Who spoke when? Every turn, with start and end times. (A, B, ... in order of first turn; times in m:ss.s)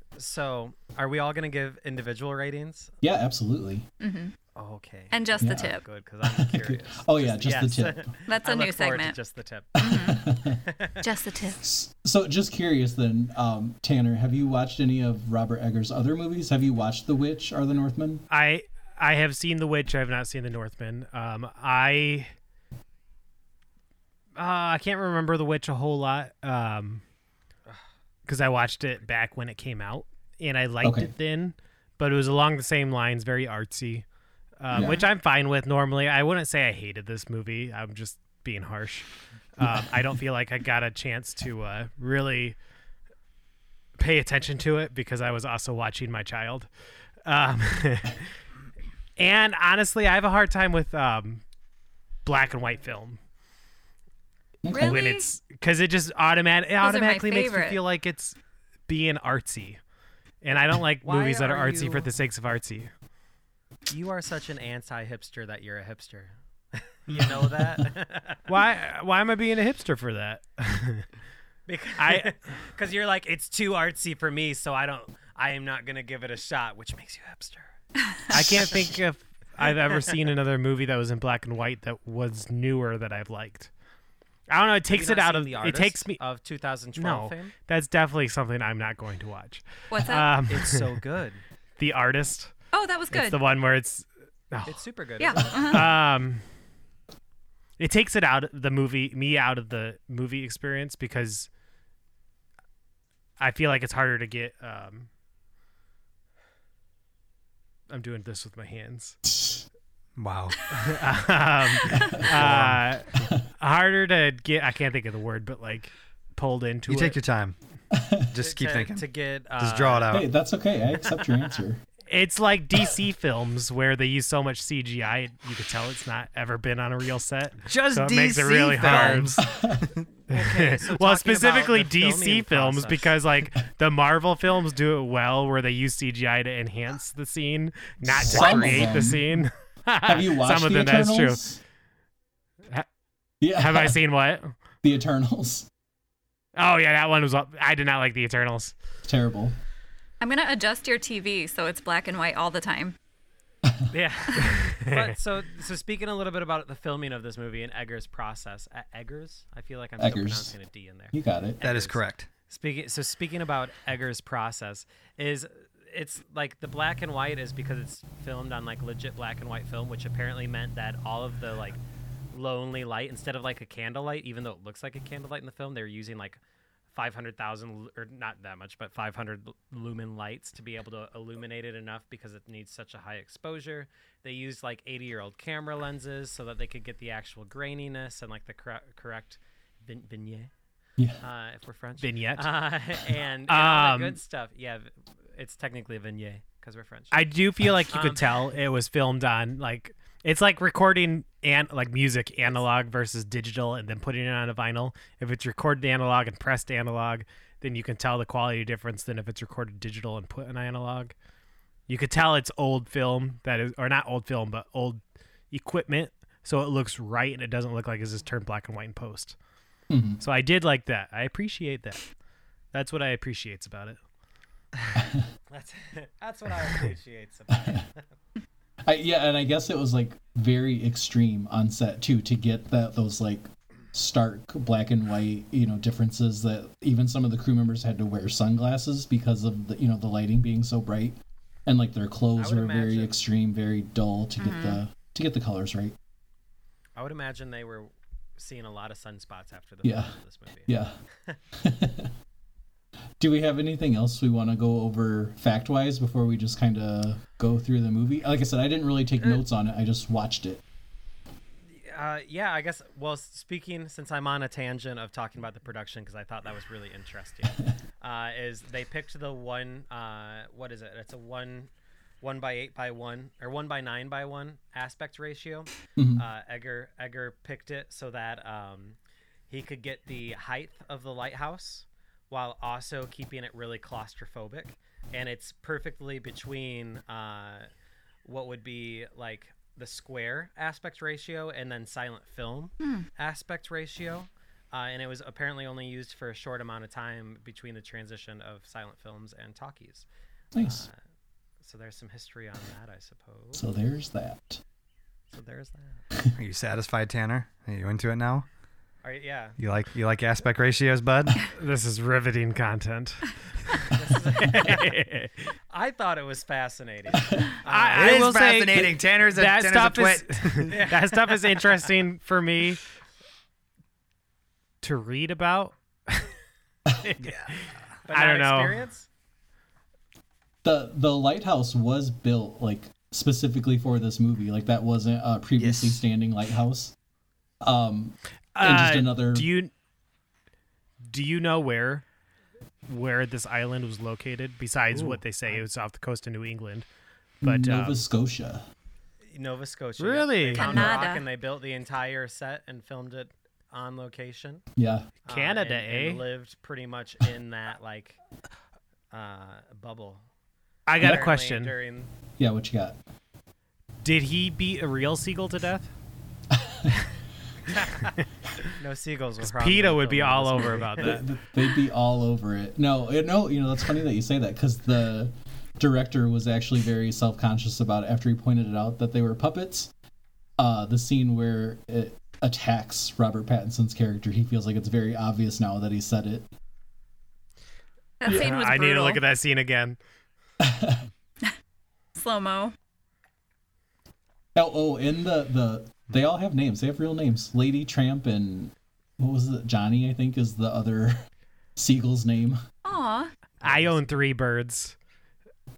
0:00.2-0:03.0 A
0:03.0-0:03.9 B
0:04.0-0:04.3 C
0:04.6-0:11.0 A
0:05.1-0:05.8 C
0:05.4-0:08.1 B
0:08.2-0:09.2 C
0:09.8-0:10.3 C
0:09.8-0:10.6 B
0:11.0-0:11.7 C
0:11.6-0:18.2 B
0:18.3-0:22.3 D
0:24.4-0:27.0 D
0:28.3-0:34.0 D
0:30.8-0:31.1 B
0:34.6-0:42.6 D
0:34.7-0:35.0 B
0:39.6-0:40.0 B
0:44.0-0:46.7 D
0:47.2-0:48.3 D
0:49.2-0:51.4 D
0:52.2-0:53.2 D
0:54.6-0:55.0 B
0:54.7-0:55.3 C
0:54.8-0:58.4 D
0:56.8-0:57.8 C
0:58.9-0:59.8 D
1:00.4-1:02.9 D
1:01.0-1:02.1 A
1:03.9-1:08.5 A
1:08.5-1:11.1 D
1:11.7-1:17.7 A
1:12.0-1:12.3 D
1:18.3-1:23.7 D
1:18.4-1:18.7 A
1:24.5-1:26.2 D
1:24.9-1:27.5 A
1:27.0-1:31.0 D
1:29.9-1:30.3 C
1:30.5-1:31.4 A
1:31.8-1:32.5 D
1:32.7-1:33.4 C
1:33.1-1:34.8 D
1:34.7-1:35.9 A
1:35.2-1:35.9 C
1:35.7-1:36.4 D
1:37.8-1:41.5 D
1:43.4-1:45.1 D
1:47.9-1:49.2 D
1:49.3-1:49.6 B
1:50.2-1:50.7 E
1:50.7-1:57.2 D
1:51.9-1:52.3 C
1:52.2-1:52.6 B
1:52.3-1:52.8 E
1:56.9-1:57.6 E
1:57.9-1:58.3 B
1:58.3-2:00.3 E
1:58.4-2:00.2 A
2:00.1-2:01.8 B
2:02.1-2:09.4 D
2:07.7-2:10.0 E
2:08.8-2:09.2 A
2:09.4-2:09.9 B
2:10.3-2:13.2 A
2:10.3-2:21.4 D
2:18.0-2:19.5 B
2:18.2-2:18.9 E
2:20.0-2:21.6 B
2:23.4-2:24.0 B
2:23.6-2:24.5 D
2:24.8-2:25.7 B
2:26.6-2:28.8 D
2:29.0-2:29.6 B
2:30.2-2:33.0 C
2:33.9-2:51.8 A
2:34.4-2:35.2 D
2:40.0-2:40.5 B
2:41.1-2:41.6 B
2:41.6-2:42.3 E
2:52.3-2:56.4 A
2:56.9-3:10.5 A
3:11.2-3:17.2 A
3:12.0-3:12.5 D
3:13.5-3:14.2 D
3:17.1-3:31.1 D
3:17.9-3:18.2 A
3:31.9-3:35.0 D
3:35.5-3:39.4 D
3:39.9-3:40.2 B
3:40.2-3:42.0 D
3:42.7-3:44.0 D
3:45.0-3:45.2 B
3:45.5-3:48.1 A
3:47.6-3:47.8 B
3:48.8-4:06.0 B
4:02.4-4:03.2 A
4:04.4-4:04.8 C
4:07.0-4:10.7 A
4:09.8-4:10.1 B
4:10.7-4:10.9 B
4:11.5-4:12.1 B
4:13.2-4:20.6 B
4:21.7-4:39.0 A
4:36.0-4:36.2 B
4:39.5-4:47.7 A
4:48.2-5:01.0 A
4:52.8-4:53.1 C
5:00.5-5:00.9 B
5:01.6-5:03.7 A
5:03.5-5:04.6 B
5:05.3-5:06.0 A
5:06.3-5:08.5 E
5:09.0-5:09.6 A
5:09.6-5:11.4 E
5:11.5-5:13.9 D
5:13.9-5:14.9 A
5:14.4-5:15.5 D
5:15.7-5:18.4 A
5:17.6-5:22.8 D
5:18.0-5:20.7 E
5:20.7-5:21.8 A
5:24.8-5:26.3 D
5:27.0-5:28.8 D
5:27.2-5:27.6 E
5:28.1-5:29.1 A
5:30.6-5:37.0 B
5:35.6-5:36.0 E
5:37.6-5:39.5 B
5:38.6-5:39.7 D
5:41.1-5:42.0 D
5:42.9-5:46.9 D
5:45.0-5:45.6 A
5:47.4-5:48.0 D
5:47.4-5:48.7 B
5:49.3-5:54.6 A
5:50.0-5:51.0 D
5:50.5-5:51.3 C
5:54.8-5:55.1 B
5:55.3-5:58.2 A
5:55.3-5:56.2 D
5:59.1-6:00.2 A
6:00.9-6:01.7 D
6:01.0-6:02.1 A
6:01.0-6:01.3 B
6:02.4-6:03.0 B
6:04.0-6:05.9 D
6:06.5-6:06.9 B
6:07.8-6:08.2 D
6:08.7-6:11.2 A
6:09.4-6:11.2 D
6:11.0-6:19.9 B
6:20.6-6:26.5 B
6:28.2-6:29.2 C
6:28.3-6:30.0 D
6:30.6-6:31.1 B
6:32.2-6:32.7 C
6:34.6-6:41.2 B
6:41.8-6:42.6 B
6:42.8-6:43.3 C
6:43.6-6:45.0 D